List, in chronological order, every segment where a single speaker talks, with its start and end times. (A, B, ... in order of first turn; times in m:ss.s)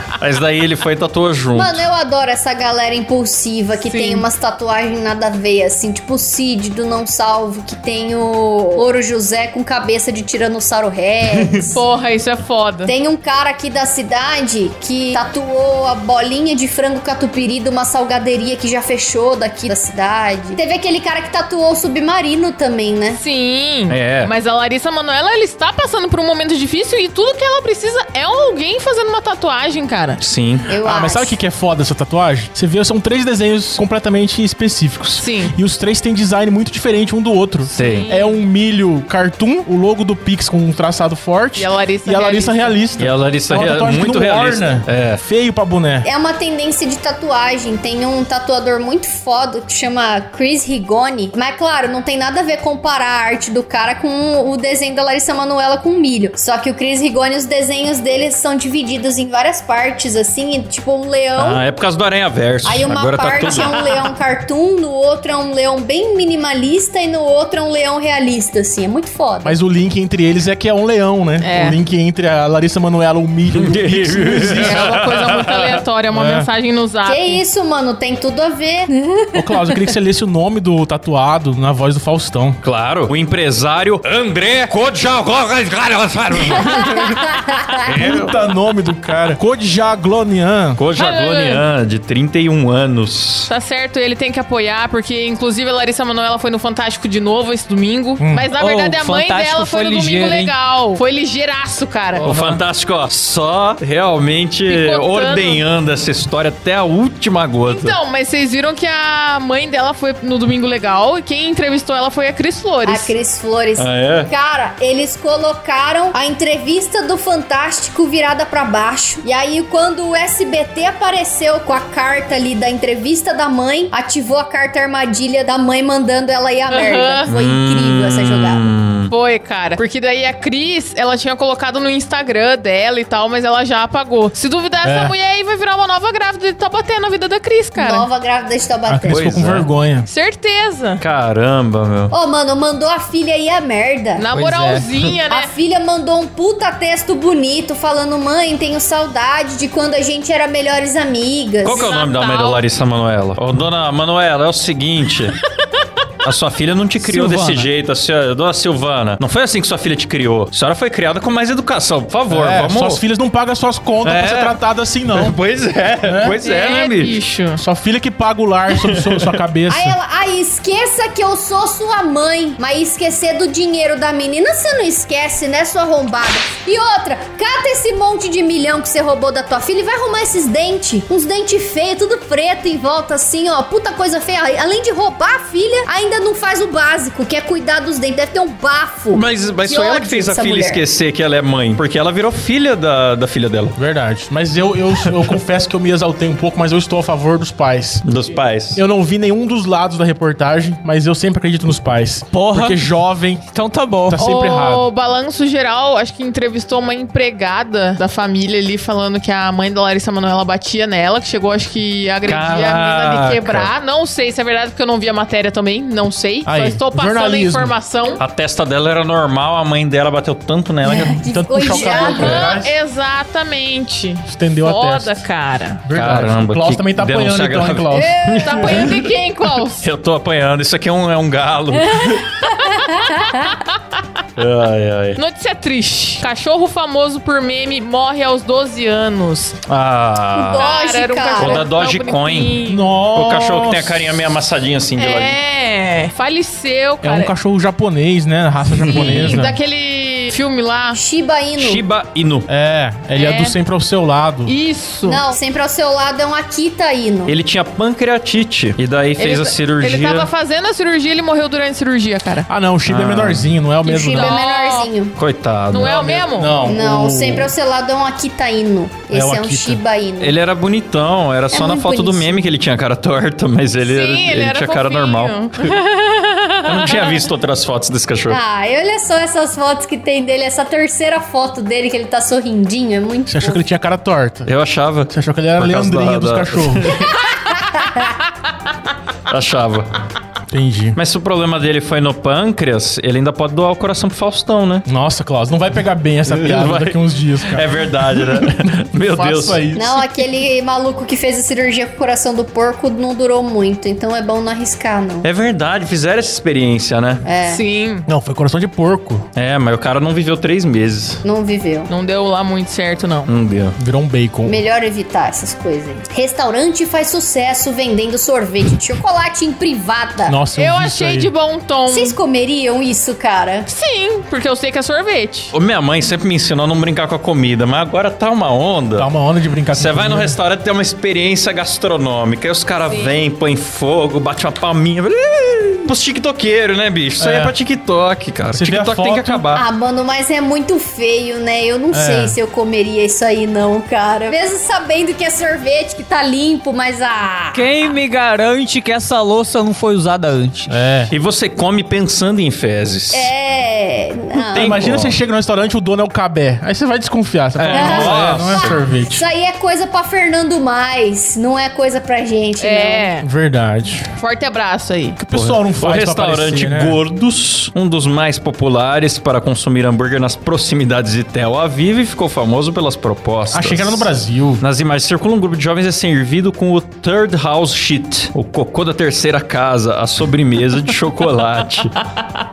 0:00.2-0:01.8 A
0:01.5-0:11.8 B
0:03.7-0:04.3 C
0:11.7-0:12.9 C
0:12.8-0:23.2 B
0:23.1-0:30.2 C
0:23.9-0:24.3 A
0:30.2-0:30.7 A
0:30.7-0:31.4 B
0:30.8-0:46.1 D
0:35.2-0:35.6 C
0:37.7-0:38.4 C
0:37.7-0:38.1 A
0:41.6-0:42.8 C
0:43.0-0:45.2 A
0:46.0-1:01.6 B
1:01.4-1:03.8 A
1:02.6-1:09.6 B
1:09.4-1:14.9 D
1:11.4-1:11.8 C
1:13.5-1:15.8 A
1:14.6-1:17.4 C
1:16.1-1:16.5 D
1:17.0-1:19.9 B
1:19.4-1:22.6 D
1:22.6-1:28.4 A
1:26.4-1:27.7 B
1:27.9-1:30.8 D
1:30.8-1:33.5 A
1:31.0-1:31.7 C
1:33.5-1:42.3 C
1:38.2-1:38.5 D
1:38.5-1:40.5 E
1:42.2-1:48.0 A
1:42.2-1:42.6 E
1:44.7-1:45.6 C
1:47.7-1:53.1 C
1:52.8-2:08.6 B
1:53.8-1:54.3 A
2:06.7-2:07.3 C
2:07.3-2:09.1 A
2:09.1-2:18.1 C
2:14.8-2:15.2 D
2:17.8-2:19.4 B
2:18.9-2:20.1 D
2:19.1-2:19.7 A
2:20.1-2:21.0 C
2:21.0-2:22.2 A
2:22.1-2:24.2 B
2:24.2-2:25.5 C
2:24.3-2:24.9 E
2:25.3-2:31.9 B
2:31.6-2:35.4 A
2:31.7-2:32.6 C
2:36.2-2:43.0 A
2:37.0-2:37.7 E
2:42.3-2:45.4 D
2:44.0-2:44.6 A
2:45.1-2:47.2 A
2:46.0-2:46.4 D
2:46.4-2:47.6 C
2:47.6-2:50.0 D
2:48.8-2:49.3 A
2:49.7-3:10.8 B
3:09.1-3:13.8 A
3:13.8-3:18.0 D
3:18.0-3:18.8 A
3:18.7-3:23.5 D
3:22.3-3:22.8 E
3:23.5-3:24.2 E
3:24.1-3:24.9 D
3:24.2-3:38.2 C
3:32.2-3:33.7 A
3:36.5-3:37.8 D
3:38.2-3:41.2 A
3:40.8-3:42.5 B
3:41.3-3:42.7 D
3:41.8-3:45.8 C
3:44.3-3:45.2 D
3:45.8-3:48.9 D
3:45.9-3:49.0 A
3:47.9-3:48.8 B
3:48.3-3:49.9 C
3:49.8-3:52.2 A
3:52.5-3:54.0 C
3:52.6-3:52.9 B
3:54.4-3:55.2 A
3:55.2-3:59.6 C
3:59.7-4:00.7 A
4:00.3-4:01.7 B
4:00.6-4:02.9 C
4:01.4-4:02.6 A
4:02.7-4:04.1 D
4:03.1-4:05.4 A
4:05.0-4:07.3 C
4:07.0-4:09.6 D
4:08.8-4:09.4 A
4:08.8-4:11.0 C
4:10.9-4:11.8 B
4:11.6-4:12.5 A
4:12.5-4:14.5 D
4:13.2-4:13.6 C
4:14.5-4:15.2 C
4:15.0-4:17.4 B
4:17.3-4:20.3 A
4:19.2-4:22.5 C
4:22.5-4:24.3 D
4:22.9-4:23.6 A
4:23.8-4:25.2 B
4:24.1-4:24.9 C
4:25.2-4:26.2 A
4:25.7-4:26.6 C
4:25.8-4:27.5 D
4:26.6-4:30.4 B
4:29.1-4:29.8 D
4:30.2-4:35.7 A
4:31.5-4:32.5 B
4:33.8-4:37.2 C
4:36.6-4:38.4 A
4:38.3-4:43.6 B
4:43.3-4:44.5 D
4:44.5-4:47.1 A
4:45.1-4:47.0 D
4:49.3-4:49.9 A
4:50.5-4:51.0 D
4:51.0-4:54.9 A
4:54.9-5:00.1 D
4:56.2-4:59.6 A
4:59.7-5:05.3 B
5:05.2-5:07.3 A
5:07.2-5:07.6 B
5:07.5-5:08.1 C
5:08.1-5:09.3 D
5:09.4-5:11.2 A
5:11.2-5:11.9 B
5:11.9-5:13.3 C
5:13.3-5:13.8 A
5:13.8-5:14.6 D
5:14.4-5:20.4 B
5:20.2-5:21.3 D
5:20.6-5:22.2 C
5:21.9-5:23.7 B
5:23.7-5:25.5 C
5:25.5-5:29.1 A
5:29.0-5:30.4 D
5:29.7-5:39.7 A
5:32.8-5:33.1 C
5:37.2-5:37.6 D
5:38.5-5:39.5 D
5:39.5-5:47.7 B
5:41.9-5:42.4 D
5:47.5-5:51.0 E
5:50.7-5:51.1 D
5:51.1-5:53.3 A
5:53.1-5:54.8 B
5:54.5-5:59.3 D
5:54.5-5:55.2 A
5:57.6-5:58.8 A
5:57.7-6:03.1 B
6:02.6-6:03.3 C
6:03.2-6:04.1 D
6:04.2-6:05.2 C
6:05.2-6:07.0 D
6:05.3-6:22.0 A
6:13.5-6:14.6 D